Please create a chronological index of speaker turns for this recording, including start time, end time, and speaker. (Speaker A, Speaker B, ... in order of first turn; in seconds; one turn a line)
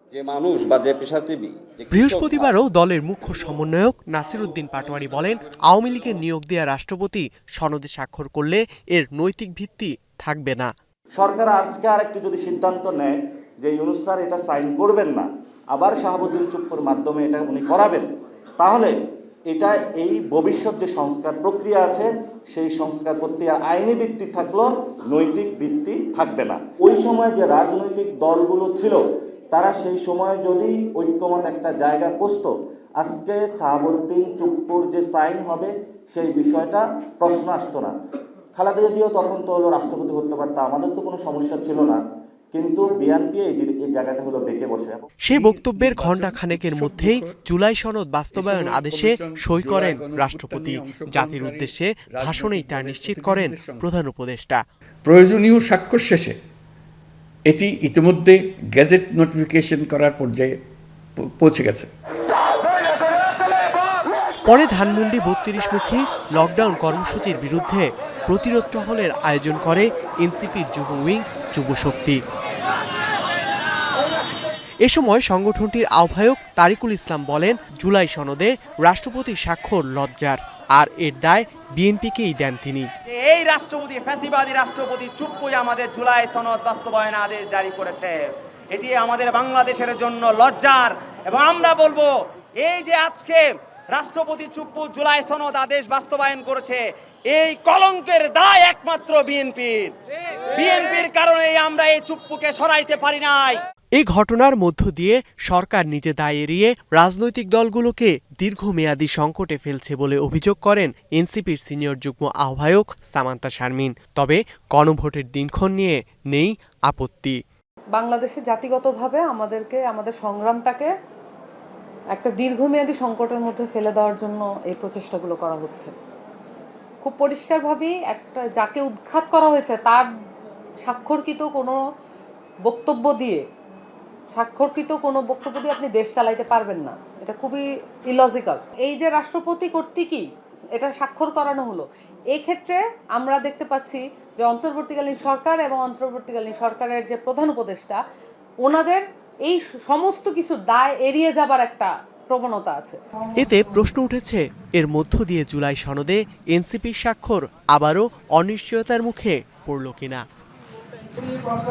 Speaker A: 0.1-2.5
Speaker B: 1.9-10.7
Speaker C: 11.2-18.1
Speaker C: 18.6-18.9
Speaker C: 19.5-37.9
Speaker C: 38.5-42.0
Speaker C: 42.5-45.1
Speaker B: 45.2-54.6
Speaker D: 45.3-47.3
Speaker D: 48.3-53.8
Speaker D: 55.0-56.4
Speaker D: 57.5-60.5
Speaker D: 61.2-61.9
Speaker B: 64.5-72.2
Speaker B: 74.8-82.9
Speaker E: 83.1-92.1
Speaker E: 92.6-99.9
Speaker E: 100.5-103.6
Speaker B: 104.0-117.4
Speaker F: 118.0-120.9
Speaker F: 122.1-125.9
Speaker F: 127.0-130.1
Speaker F: 130.8-131.8
Speaker F: 132.7-133.4
Speaker F: 134.3-148.0
Speaker F: 148.6-153.0
Speaker B: 153.4-160.2